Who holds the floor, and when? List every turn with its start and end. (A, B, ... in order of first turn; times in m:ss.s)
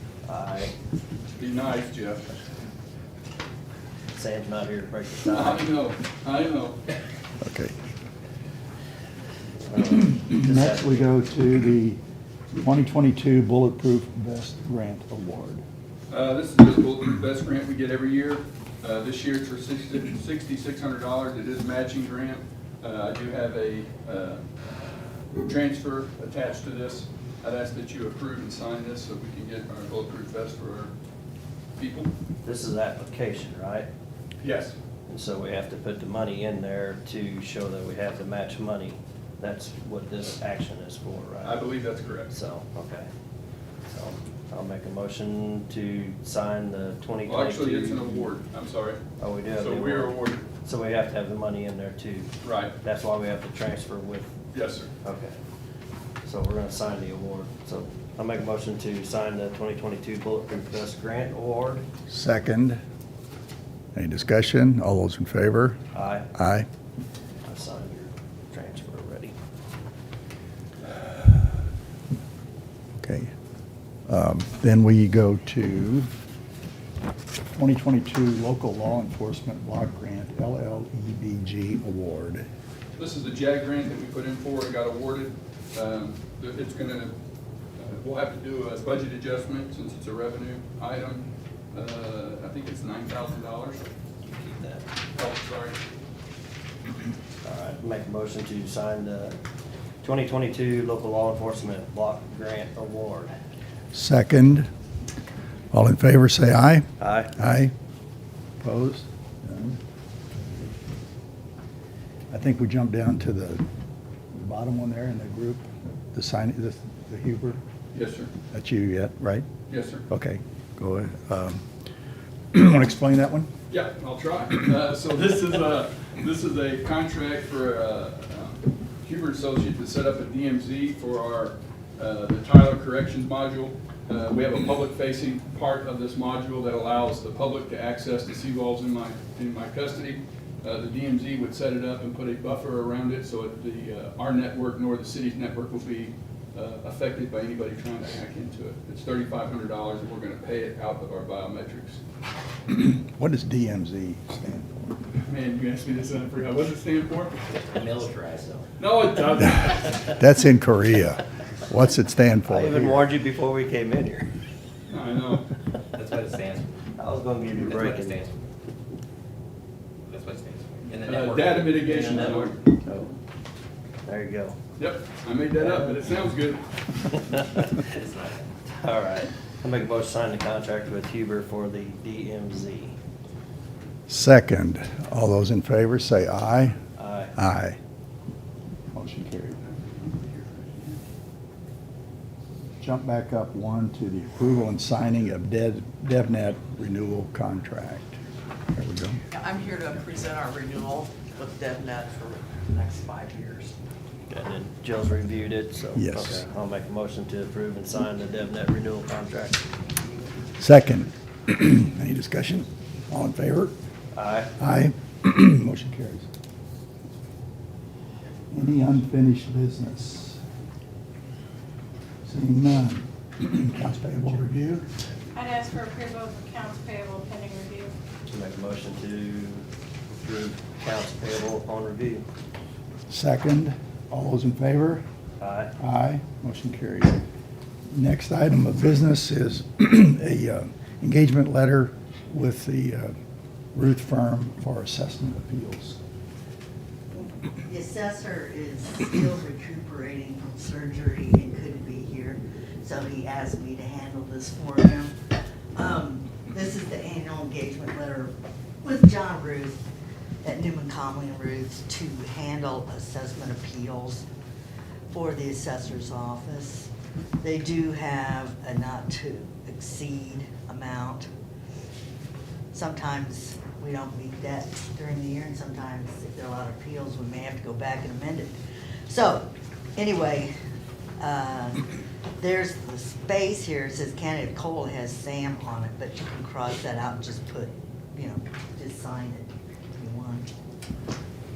0:00.2-0:00.7 A
0:01.4-0:02.3 B
0:04.1-0:05.7 A
0:05.2-0:06.8 B
0:07.4-0:07.7 C
0:09.7-0:11.1 A
0:10.1-0:12.0 C
0:12.5-0:15.6 C
0:16.1-0:24.4 B
0:25.4-0:30.9 B
0:31.8-0:32.1 B
0:32.4-0:33.9 A
0:34.4-0:34.7 B
0:35.1-0:41.6 A
0:41.4-0:42.3 B
0:42.3-0:43.1 A
0:43.9-0:48.3 A
0:47.2-0:49.0 B
0:49.2-0:54.3 A
0:49.6-0:50.4 B
0:52.4-0:52.8 B
0:54.5-0:54.9 B
0:55.0-0:55.4 A
0:56.2-1:01.8 A
1:02.1-1:02.8 C
1:03.9-1:05.8 C
1:05.9-1:06.3 A
1:06.3-1:06.7 C
1:07.4-1:09.3 A
1:13.0-1:13.3 C
1:14.1-1:16.1 C
1:17.5-1:22.4 C
1:23.0-1:27.1 B
1:27.8-1:33.9 B
1:34.2-1:34.8 A
1:35.2-1:35.8 B
1:37.4-1:39.4 A
1:40.0-1:43.3 A
1:43.9-1:44.7 C
1:45.7-1:47.7 C
1:47.0-1:47.3 A
1:48.6-1:49.8 C
1:52.3-1:53.6 C
1:54.3-1:57.6 C
1:57.9-1:58.3 B
1:58.5-1:59.4 C
1:59.7-2:00.0 B
2:00.1-2:01.6 C
2:02.5-2:03.5 C
2:03.7-2:32.0 B
2:32.7-2:34.9 C
2:35.2-2:37.4 B
2:37.5-2:38.6 D
2:38.8-2:40.0 B
2:39.6-2:43.1 C
2:42.5-2:44.3 A
2:44.9-2:45.5 B
2:45.9-2:46.7 D
2:47.0-2:48.2 A
2:47.5-2:48.4 D
2:50.1-2:51.8 D
2:51.0-2:52.6 B
2:51.8-2:53.1 A
2:54.0-2:54.6 A
2:54.8-2:56.7 B
2:55.6-2:56.0 A
2:57.9-2:58.4 D
2:58.7-3:03.0 A
3:04.1-3:06.8 C
3:07.0-3:07.3 A
3:07.4-3:07.8 C
3:08.9-3:09.6 C
3:09.6-3:11.0 B
3:12.8-3:18.2 C
3:18.7-3:19.2 C
3:19.3-3:23.8 E
3:24.3-3:29.7 A
3:26.0-3:26.4 C
3:30.6-3:33.7 C
3:34.1-3:34.5 A
3:34.6-3:36.2 C
3:38.5-3:40.4 C
3:42.2-3:44.9 C
3:45.3-3:47.9 F
3:48.3-3:49.6 A
3:50.2-3:52.2 A
3:53.1-3:55.0 C
3:55.4-3:55.7 A
3:55.8-3:57.2 C
3:57.9-4:03.1 C
4:03.7-4:06.0 C
4:07.1-4:15.2 G
4:15.7-4:19.8 G
4:20.4-4:24.2 G
4:25.1-4:26.9 G
4:27.4-4:31.3 G
4:32.7-4:38.6 G
4:39.1-4:40.5 G
4:41.2-4:41.9 G
4:42.4-4:50.5 G